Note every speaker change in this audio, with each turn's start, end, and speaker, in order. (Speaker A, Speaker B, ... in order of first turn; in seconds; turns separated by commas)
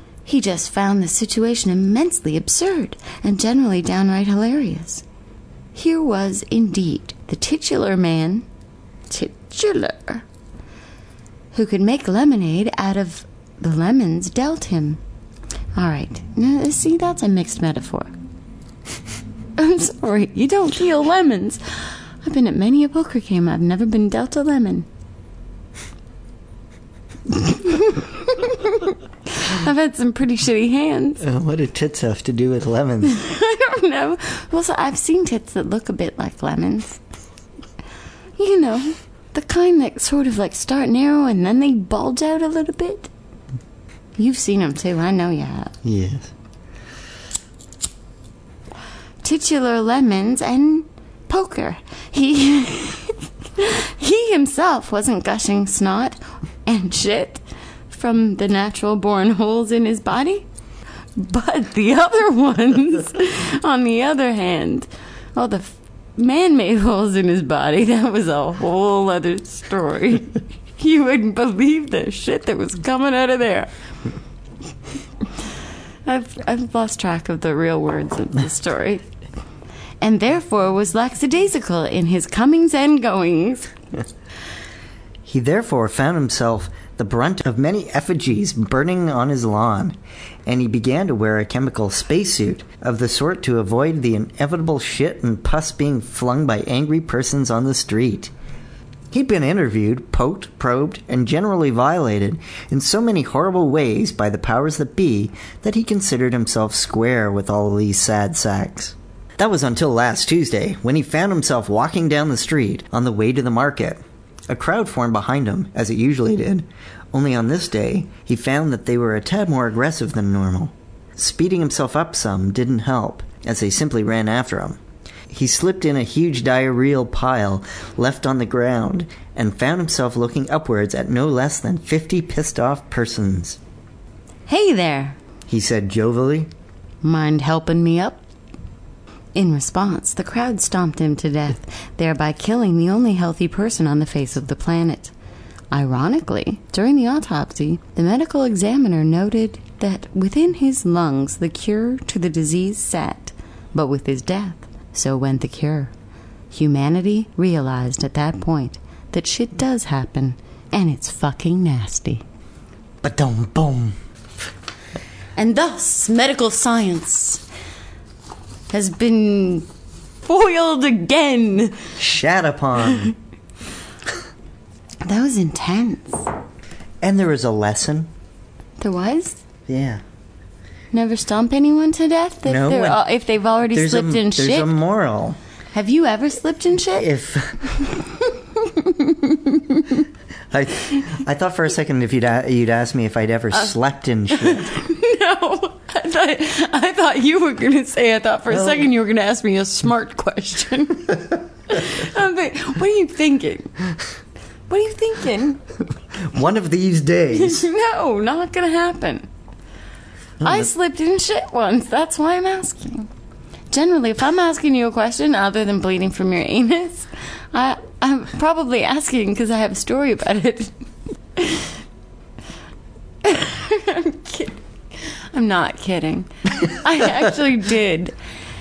Speaker A: 0.2-5.0, Speaker A: 5.7-8.4, Speaker A: 9.1-10.2, Speaker A: 11.5-15.0, Speaker A: 15.7-18.1, Speaker A: 19.6-24.9, Speaker A: 27.3-31.2, Speaker B: 31.2-33.2, Speaker A: 33.0-37.0, Speaker A: 38.4-43.1, Speaker A: 44.2-45.8, Speaker B: 45.8-46.3, Speaker A: 49.2-60.5, Speaker A: 61.1-73.7, Speaker A: 76.0-79.1, Speaker A: 80.0-83.7, Speaker B: 85.2-98.3, Speaker B: 99.1-124.8, Speaker B: 125.3-133.6, Speaker A: 134.5-135.2, Speaker B: 135.5-136.5, Speaker A: 137.0-138.2, Speaker A: 139.3-145.1, Speaker A: 145.7-155.9, Speaker A: 156.5-162.2, Speaker B: 163.0-164.0, Speaker A: 165.3-167.4, Speaker A: 168.7-169.7, Speaker A: 170.2-171.9, Speaker B: 172.0-173.1, Speaker A: 175.0-176.3, Speaker B: 177.0-178.1, Speaker A: 178.8-179.4, Speaker B: 179.7-180.0, Speaker A: 180.9-184.7, Speaker B: 182.4-183.0, Speaker B: 183.7-185.4, Speaker A: 185.7-187.1, Speaker B: 187.0-187.7, Speaker A: 187.8-190.0, Speaker B: 190.5-194.7, Speaker A: 194.3-203.7, Speaker B: 198.5-198.8, Speaker A: 204.7-205.6, Speaker B: 206.2-207.7, Speaker A: 207.3-209.3, Speaker B: 210.4-210.7, Speaker A: 210.4-213.1, Speaker A: 213.7-220.8, Speaker A: 221.3-221.8, Speaker A: 223.2-228.1